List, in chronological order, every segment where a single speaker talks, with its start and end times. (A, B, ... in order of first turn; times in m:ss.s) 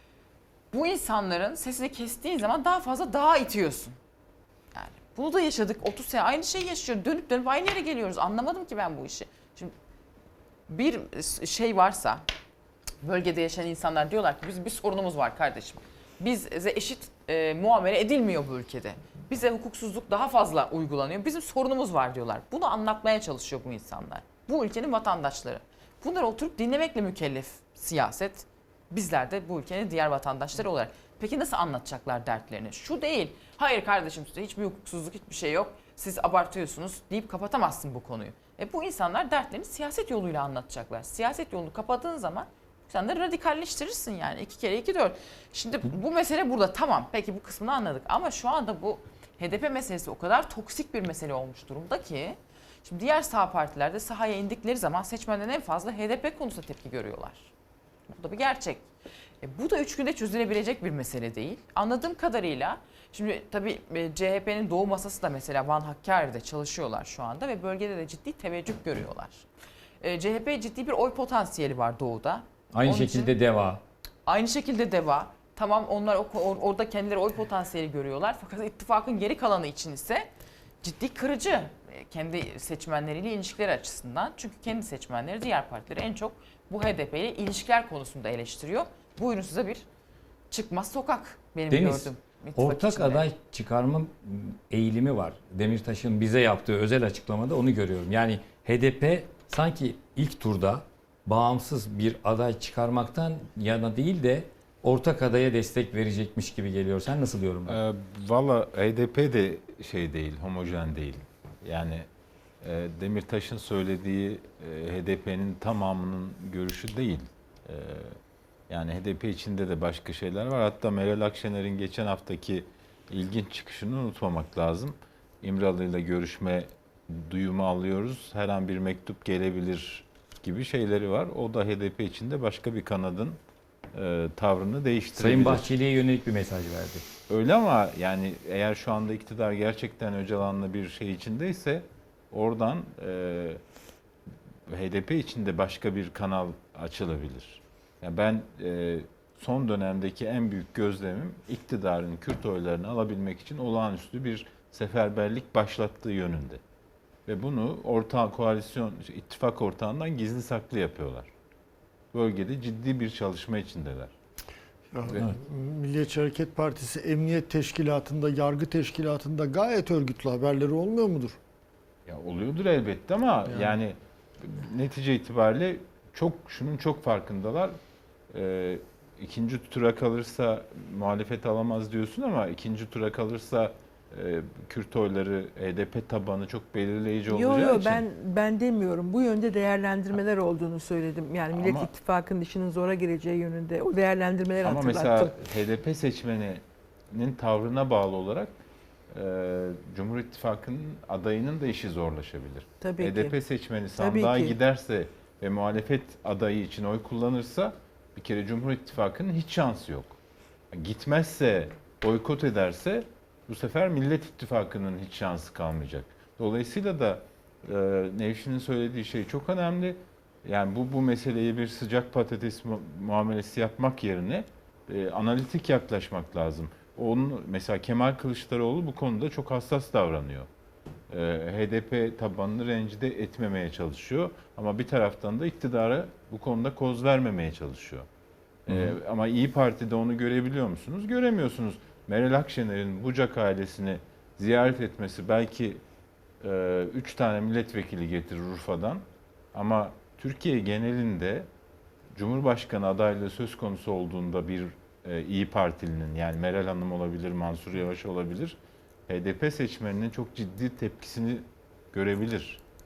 0:00.7-0:04.0 A
0:04.7-0:09.7 A
0:10.7-0:12.2 A
0:13.0-0:57.5 A
0:58.1-0:58.8 A
0:59.4-1:09.5 A
1:10.0-1:13.4 A
1:12.7-1:13.8 B
1:14.3-1:20.3 A
1:20.8-1:29.8 A
1:30.5-1:33.3 A
1:31.7-1:47.8 B
1:47.7-1:52.1 C
1:52.6-1:58.2 C
1:58.7-2:13.4 C
2:13.9-2:15.7 C
2:15.2-2:17.0 B
2:17.3-2:23.6 C
2:24.7-2:36.6 C
2:37.3-2:41.3 C
2:42.1-2:44.1 C
2:44.9-2:51.4 D
2:52.1-2:57.8 C
2:53.5-2:53.7 D
2:58.3-3:08.0 C
3:07.3-3:15.3 E
3:11.5-3:11.9 C
3:14.6-3:18.5 C
3:19.1-3:30.2 C
3:22.8-3:23.4 E
3:24.0-3:24.6 E
3:30.7-3:50.5 C
3:51.1-3:58.1 C
3:58.7-4:05.8 C
4:06.4-4:09.0 C
4:09.5-4:11.5 C
4:12.1-4:18.6 C
4:19.1-4:22.6 C